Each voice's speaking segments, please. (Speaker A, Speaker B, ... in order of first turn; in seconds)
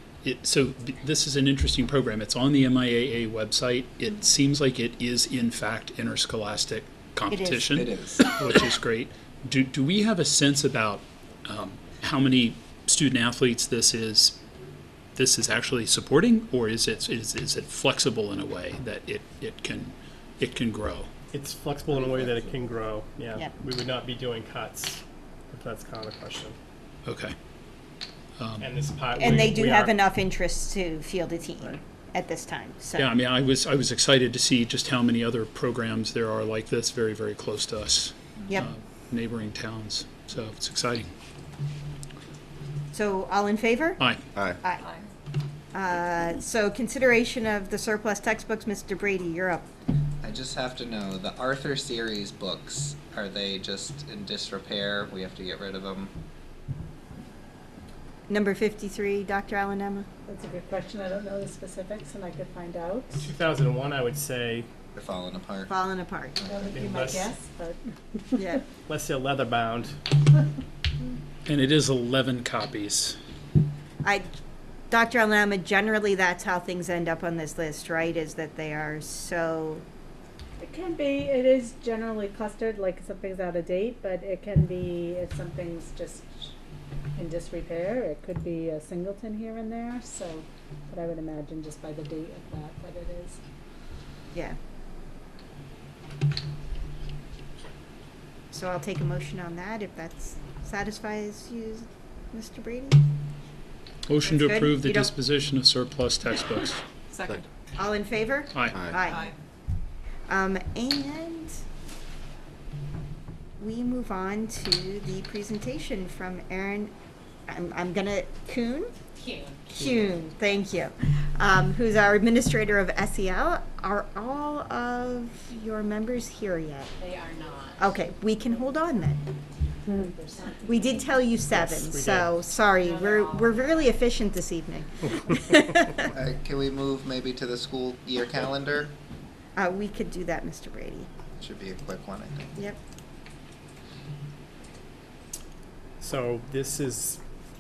Speaker A: 0.2-14.4, 15.2-21.1, 27.1-27.3, 28.4-28.7, 33.0-41.1, 71.5-73.2, 104.1-106.8, 108.5-108.9
Speaker B: 7.3-8.4, 29.2-33.1, 42.9-44.0, 44.6-44.9, 45.7-49.7, 58.3-60.1, 65.7-66.5, 68.4-68.6, 74.0-74.3, 74.9-79.8, 98.5-103.0, 104.2-105.1, 107.8-109.3, 110.3-111.6, 113.6-116.9, 117.5-118.9, 119.7-126.9, 127.8-129.2, 130.7-136.1, 139.6-141.1
Speaker C: 7.8-8.4, 50.2-56.1, 65.0-65.7, 136.1-138.9, 141.4-142.6
Speaker D: 21.3-25.0, 25.5-26.6, 28.6-30.0, 63.2-64.7, 66.7-67.3, 68.9-70.0, 131.5-132.3, 146.0-147.2
Speaker E: 60.3-63.3, 66.4-68.6, 80.6-86.3, 87.2-93.4, 129.9-131.0
Speaker F: 119.2-119.8, 127.0-127.8, 132.8-133.8